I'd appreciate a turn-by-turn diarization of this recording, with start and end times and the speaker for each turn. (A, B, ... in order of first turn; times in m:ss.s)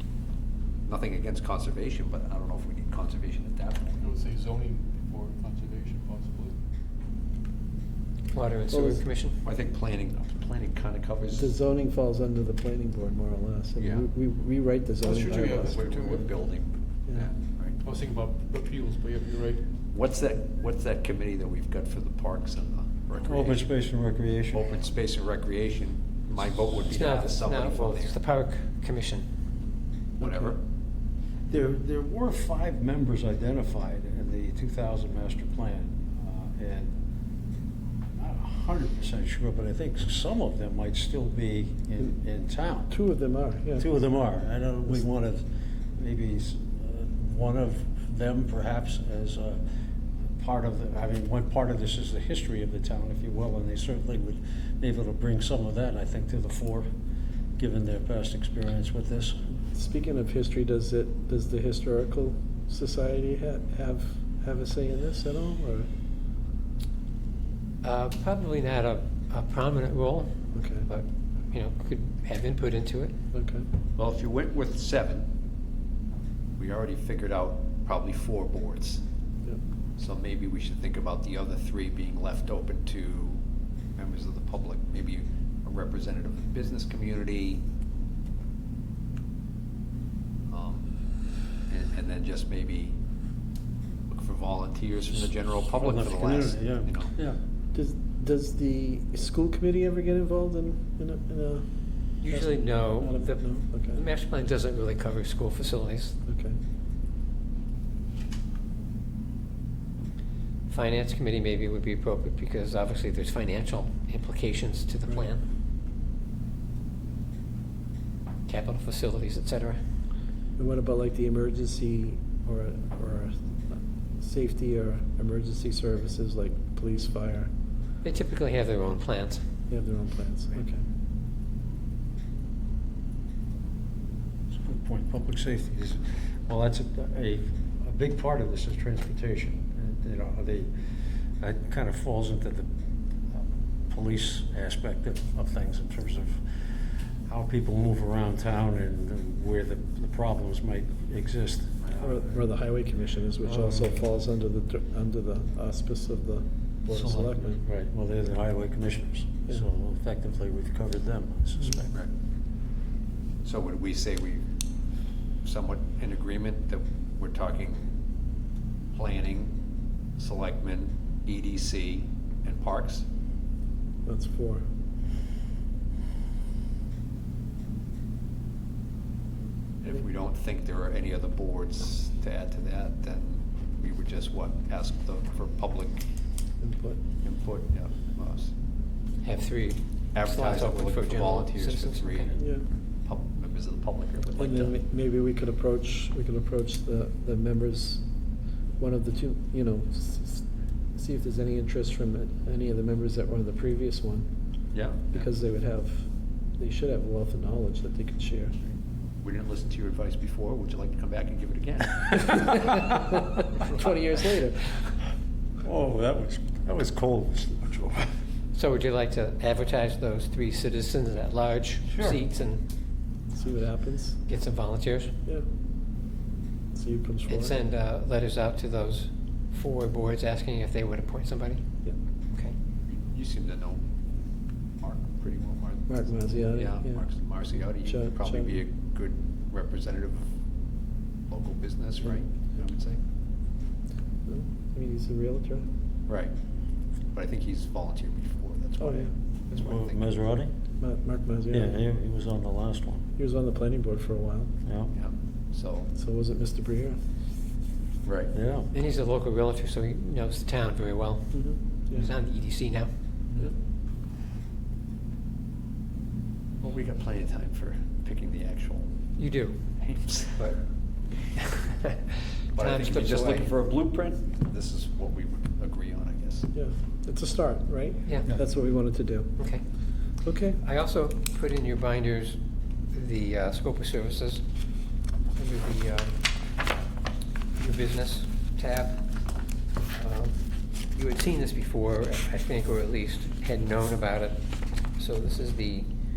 0:00.9-0:04.0 A
0:04.0-0:06.6 B
0:08.3-0:09.4 C
0:08.7-0:09.0 D
0:09.4-0:11.5 A
0:11.4-0:15.8 D
0:13.8-0:14.1 A
0:15.0-0:16.4 B
0:15.4-0:17.8 A
0:17.8-0:19.7 B
0:19.9-0:23.7 A
0:23.2-0:24.6 E
0:24.5-0:28.2 A
0:26.9-0:29.3 C
0:30.2-0:30.6 A
0:31.5-0:36.9 E
0:38.2-0:42.9 E
0:42.9-0:43.9 D
0:43.8-0:49.6 E
0:50.4-0:56.9 E
0:57.6-0:59.5 E
0:59.7-1:05.9 D
1:07.8-1:13.2 C
1:10.5-1:10.9 D
1:13.3-1:13.7 D
1:14.0-1:15.3 A
1:16.6-1:19.0 A
1:20.0-1:23.4 A
1:24.0-1:27.6 A
1:30.5-1:30.9 A
1:31.7-1:33.0 A
1:34.1-1:37.1 A
1:35.7-1:37.4 E
1:37.7-1:41.7 D
1:42.2-1:46.2 C
1:42.3-1:44.0 D
1:46.3-1:46.6 D
1:50.7-1:55.4 C
1:58.5-1:59.8 C
2:00.6-2:07.5 D
2:08.0-2:09.4 C
2:09.7-2:10.8 D
2:14.5-2:20.7 E
2:21.4-2:22.7 E
2:23.3-2:32.4 E
2:32.0-2:37.6 D
2:33.4-2:34.1 E
2:36.9-2:41.9 E
2:43.4-2:44.5 A
2:45.4-2:48.0 A
2:48.9-2:49.5 A
2:50.2-2:53.1 A
2:54.1-2:54.7 D
2:59.8-3:06.0 A
3:06.6-3:07.0 D
3:07.2-3:08.5 A
3:09.2-3:12.4 C
3:10.1-3:12.5 A
3:12.4-3:12.6 D
3:13.0-3:14.8 A
3:14.4-3:18.0 D
3:18.8-3:24.3 D
3:24.7-3:25.3 A
3:25.1-3:28.5 D
3:29.2-3:32.9 A
3:32.9-3:34.8 D
3:35.6-3:38.1 E
3:38.5-3:42.6 C
3:41.9-3:42.2 E
3:43.3-3:44.2 D
3:44.3-3:45.1 C
3:46.7-3:47.6 D
3:47.3-3:51.6 C
3:52.9-3:53.8 A
3:54.8-4:00.3 A
3:55.9-3:57.0 D
3:57.8-3:58.6 D
4:01.3-4:03.0 A
4:04.3-4:05.6 D
4:07.1-4:10.4 A
4:08.8-4:09.1 D
4:09.5-4:10.5 E
4:10.8-4:11.8 D
4:11.5-4:13.1 E
4:13.2-4:14.5 D
4:14.6-4:14.9 E
4:14.9-4:15.9 A
4:16.0-4:17.0 D
4:18.0-4:18.3 A
4:18.3-4:18.7 E
4:18.7-4:22.9 C
4:21.3-4:22.1 D
4:26.6-4:28.9 A
4:29.2-4:29.6 C
4:29.8-4:30.5 A
4:31.8-4:33.5 C
4:32.6-4:36.5 A
4:36.5-4:39.5 D
4:39.4-4:39.6 C
4:40.2-4:40.6 D
4:40.6-4:42.4 C
4:42.9-4:44.5 C
4:45.4-4:46.3 C
4:47.6-4:49.1 C
4:49.9-4:55.9 C